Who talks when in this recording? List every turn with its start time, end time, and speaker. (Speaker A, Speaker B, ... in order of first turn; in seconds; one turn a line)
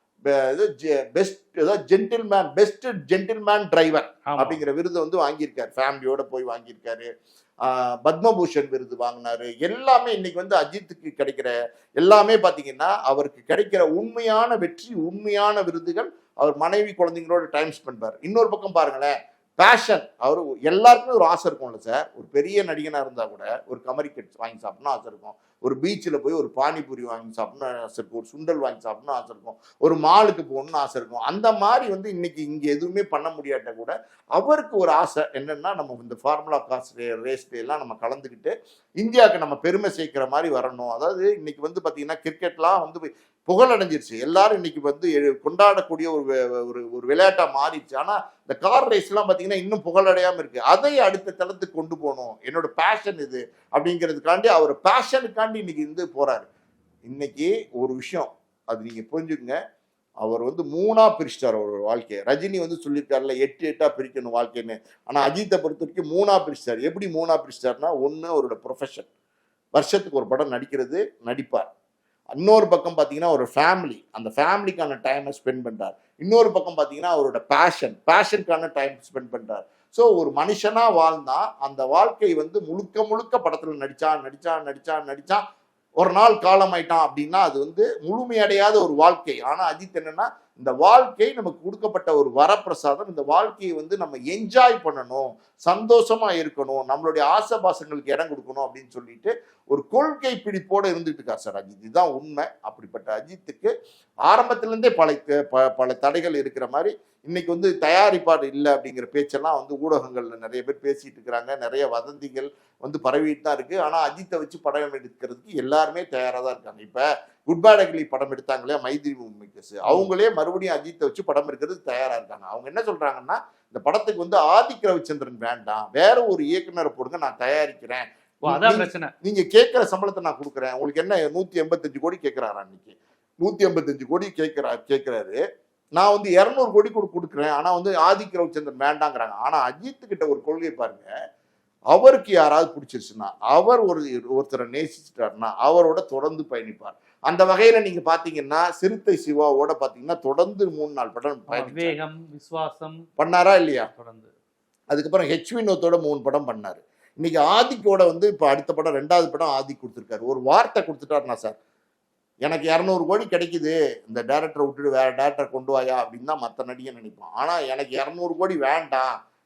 Speaker A: 0.3-7.1
Speaker B: 4.3-4.6
Speaker A: 7.7-56.5
Speaker A: 57.1-59.6
Speaker A: 60.2-69.1
Speaker A: 69.8-71.7
Speaker A: 72.4-85.4
Speaker A: 86.0-103.7
Speaker A: 104.3-135.4
Speaker B: 128.4-129.1
Speaker A: 136.0-141.1
Speaker A: 141.9-151.9
Speaker B: 151.5-153.0
Speaker A: 153.2-153.9
Speaker B: 153.9-154.3
Speaker A: 154.9-161.6
Speaker A: 162.5-169.1